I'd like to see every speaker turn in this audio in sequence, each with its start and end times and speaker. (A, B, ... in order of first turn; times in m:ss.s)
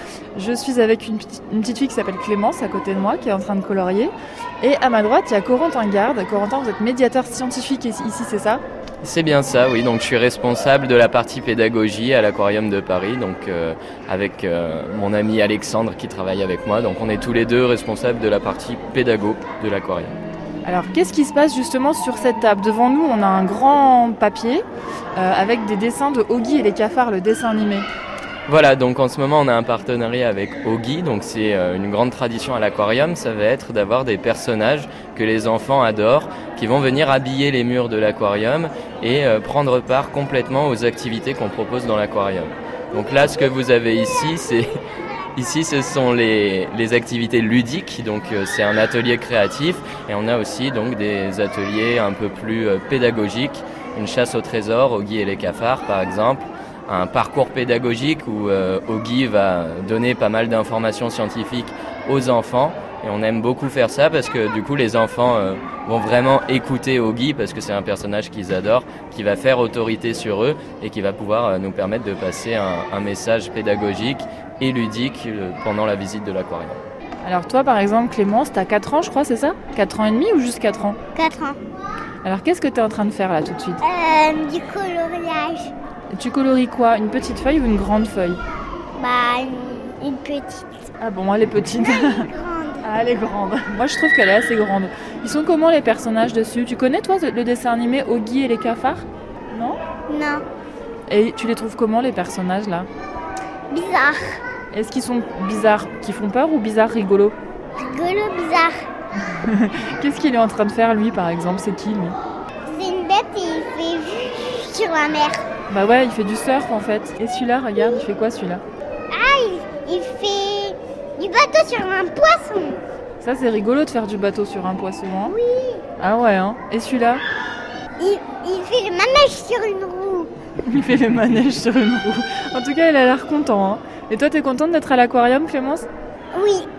0:00.4-0:08.6 A
0:09.0-0:20.2 B
0:20.6-0:27.9 A
0:28.5-0:44.7 B
0:45.4-1:16.8 B
1:17.2-1:21.0 A
1:21.2-1:21.6 C
1:22.2-1:23.8 A
1:23.8-1:25.7 C
1:26.1-1:28.4 A
1:29.0-1:30.7 C
1:31.0-1:32.3 A
1:31.8-1:32.8 C
1:32.8-1:39.8 A
1:40.1-1:40.4 C
1:41.1-1:42.9 A
1:43.7-1:44.4 C
1:44.7-1:47.4 A
1:47.8-1:48.8 C
1:49.3-1:52.2 A
1:52.7-1:55.4 C
1:55.7-1:58.6 A
1:59.1-2:02.8 C
2:03.2-2:05.4 A
2:05.3-2:05.8 C
2:06.0-2:07.2 A
2:08.0-2:10.3 C
2:10.6-2:15.9 A
2:16.3-2:16.7 C